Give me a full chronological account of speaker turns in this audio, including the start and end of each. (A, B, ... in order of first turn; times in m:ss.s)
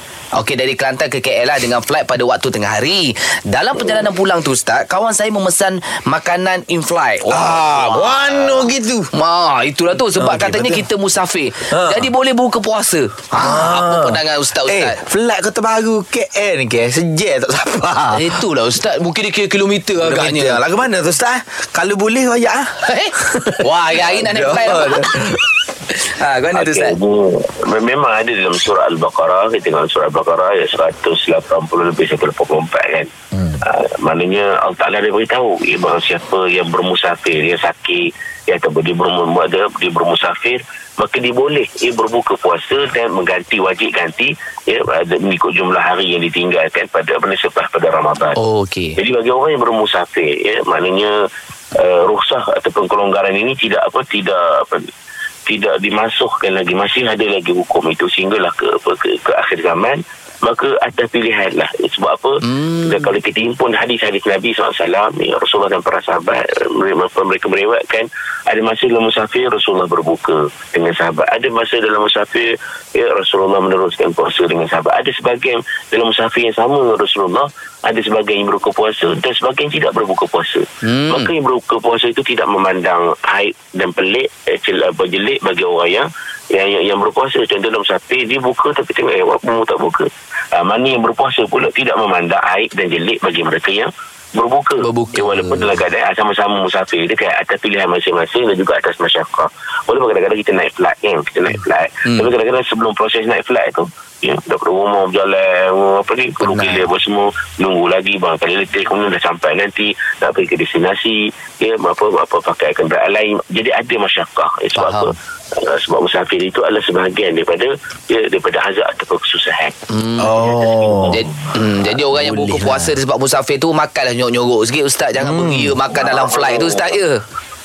0:00.4-0:15.0 A
0:07.3-0:09.1 B
0:10.2-0:10.8 B
0:11.7-0:12.1 B
0:13.3-0:18.4 B
0:18.1-0:20.6 A
0:20.0-0:25.5 B
0:22.8-0:25.1 A
0:25.9-0:27.0 A
0:26.5-0:48.4 C
0:48.4-0:49.0 A
0:49.0-0:51.1 C
0:51.8-0:54.9 C
0:55.5-1:59.8 C
1:02.4-1:03.1 A
1:20.8-1:21.3 A
1:34.8-1:35.8 A
1:41.5-1:42.3 A
1:46.4-1:46.9 A
1:54.8-1:55.1 A
1:59.9-2:00.3 A
2:00.2-2:01.2 B
2:00.4-2:01.3 C
2:01.1-2:07.2 A
2:02.0-2:03.0 B
2:05.2-2:05.8 B
2:05.9-2:07.0 C